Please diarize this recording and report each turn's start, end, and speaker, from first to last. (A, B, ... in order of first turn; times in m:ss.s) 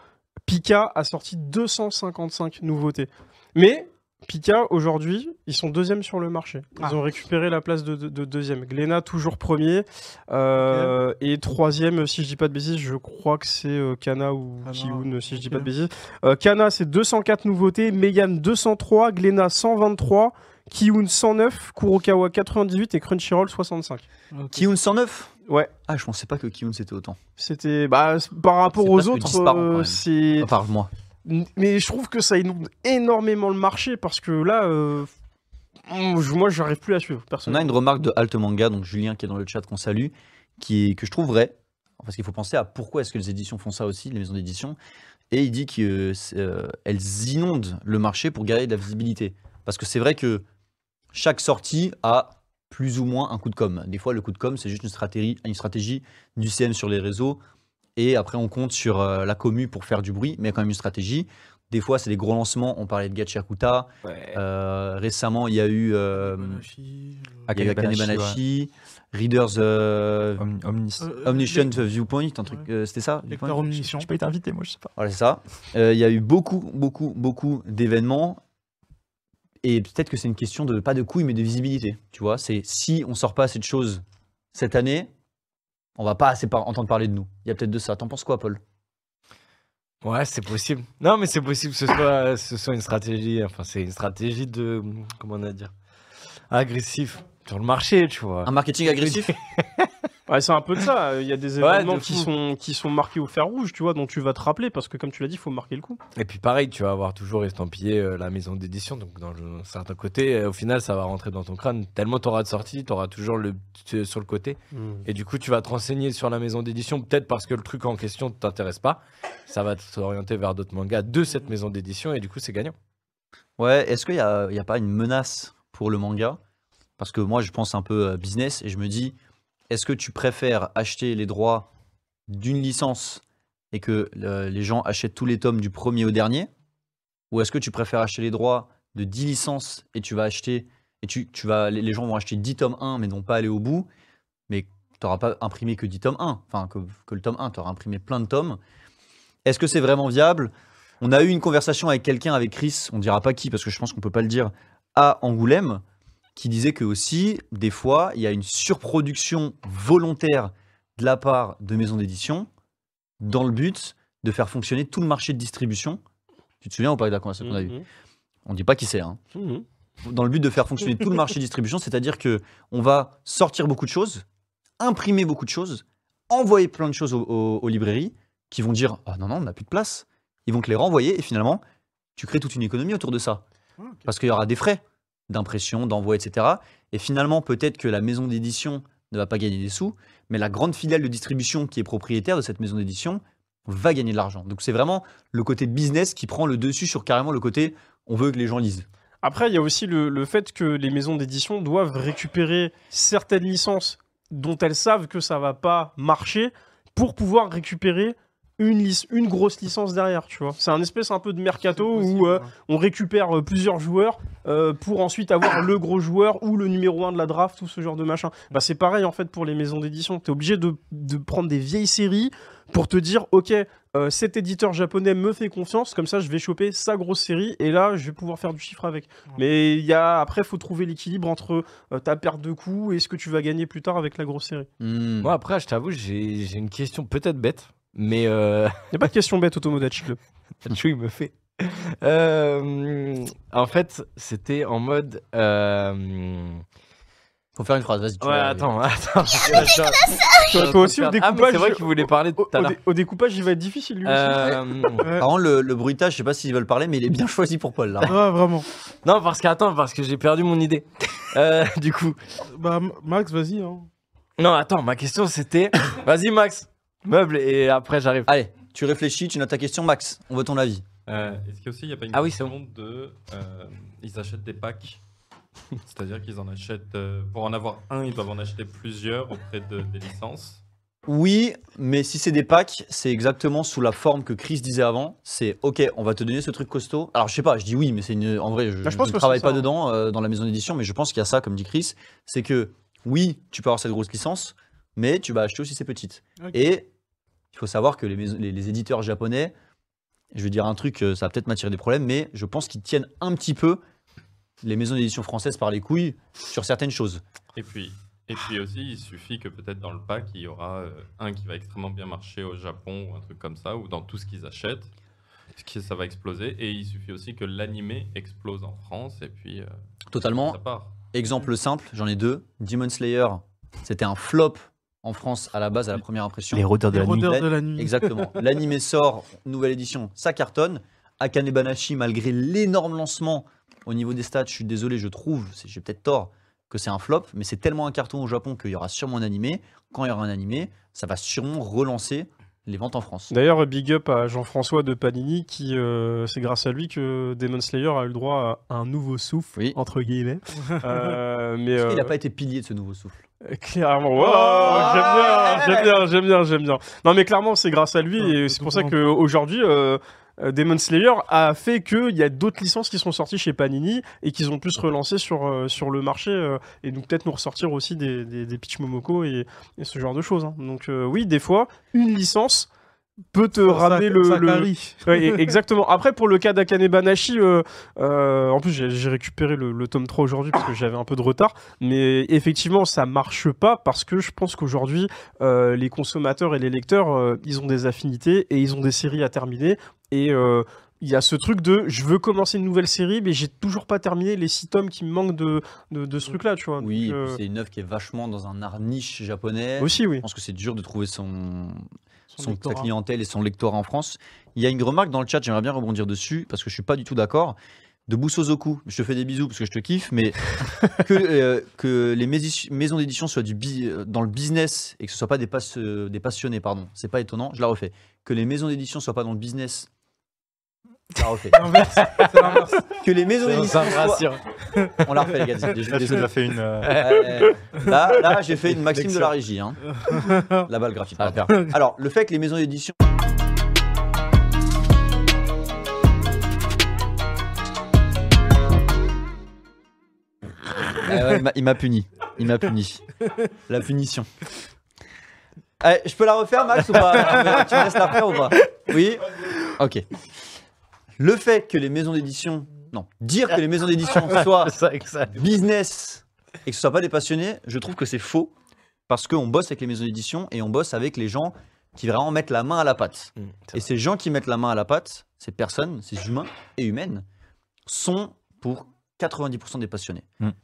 0:00.5-0:24.0 A
0:10.6-0:10.9 B
0:14.6-0:15.7 B
0:24.3-0:24.6 B
0:24.5-0:25.3 C
0:25.5-0:25.7 A
0:25.9-0:27.2 C
0:27.4-0:30.5 A
0:28.7-0:30.9 C
0:31.2-0:35.1 A
0:35.8-0:37.7 A
0:37.5-0:44.8 C
0:45.3-0:50.4 C
0:51.1-0:57.4 C
0:58.0-1:06.6 C
1:04.0-1:04.4 D
1:06.1-1:07.5 B
1:07.5-1:08.4 E
1:07.5-1:10.4 C
1:10.4-1:11.1 E
1:11.0-1:11.8 B
1:11.2-1:13.8 C
1:13.3-1:14.1 B
1:13.9-1:14.9 E
1:15.0-1:18.4 C
1:19.6-1:25.1 C
1:26.0-1:28.6 C
1:30.0-1:35.7 D
1:36.5-1:39.9 D
1:38.4-1:39.3 C
1:40.3-1:46.0 A
1:41.6-1:42.3 D
1:46.2-2:02.7 D
1:54.7-1:55.0 A
2:03.6-2:06.4 C
2:07.0-2:09.1 C
2:09.7-2:11.7 C
2:12.3-2:16.5 C
2:17.3-2:23.9 C
2:24.5-2:28.6 C
2:29.4-2:35.8 C
2:36.4-2:42.5 C
2:43.2-2:46.0 C
2:46.6-2:47.8 C
2:47.4-2:47.8 A
2:48.4-2:49.2 C
2:49.3-2:49.6 A
2:50.0-2:54.2 C
2:54.8-3:01.6 C
3:02.2-3:03.4 C
3:04.0-3:18.8 C
3:19.2-3:54.7 A
3:31.8-3:32.5 B
3:54.8-3:55.3 C
3:55.2-3:58.7 D
3:58.9-4:00.2 A
4:00.6-4:06.6 D
4:07.6-4:08.7 C
4:08.2-4:12.8 D
4:09.4-4:09.7 C
4:10.4-4:14.4 A
4:14.0-4:15.1 D
4:14.4-4:18.2 C
4:18.0-4:18.7 B
4:19.0-4:22.2 D
4:22.5-4:23.9 B
4:24.4-4:28.3 D
4:28.2-4:30.8 C
4:31.1-4:35.0 F
4:32.1-4:32.6 D
4:35.8-4:40.6 F
4:41.0-4:56.9 C
4:48.8-4:49.6 A
4:57.5-4:59.5 C
5:00.3-5:03.8 C
5:04.6-5:07.2 C
5:07.5-5:14.9 F
5:15.6-5:21.0 F
5:20.1-5:20.6 C
5:21.1-5:26.7 C
5:26.5-5:27.4 E
5:26.9-5:28.3 B
5:27.7-5:43.3 C
5:43.3-5:52.1 A
5:51.7-5:53.2 C
5:53.4-6:12.7 A
5:54.2-5:55.7 B
5:58.2-5:58.9 B
6:13.3-6:37.4 A
6:13.6-6:15.4 B
6:36.8-6:41.8 C
6:39.8-6:40.2 A
6:42.3-6:42.9 B
6:42.4-6:47.6 C
6:48.1-6:59.9 C
7:01.2-7:01.7 C
7:01.5-7:02.9 B
7:01.7-7:02.8 D
7:02.9-7:04.4 C
7:03.4-7:05.7 D
7:05.0-7:06.3 C
7:05.9-7:06.9 E
7:06.8-7:07.6 D
7:07.0-7:12.9 C
7:08.6-7:09.3 D
7:10.0-7:10.6 B
7:21.0-7:24.3 C
7:25.8-7:30.0 C
7:27.0-7:27.7 D
7:31.2-7:34.8 C
7:34.1-7:35.4 D
7:35.3-7:38.5 C
7:39.1-7:47.2 C
7:43.4-7:43.8 D
7:47.9-7:50.2 C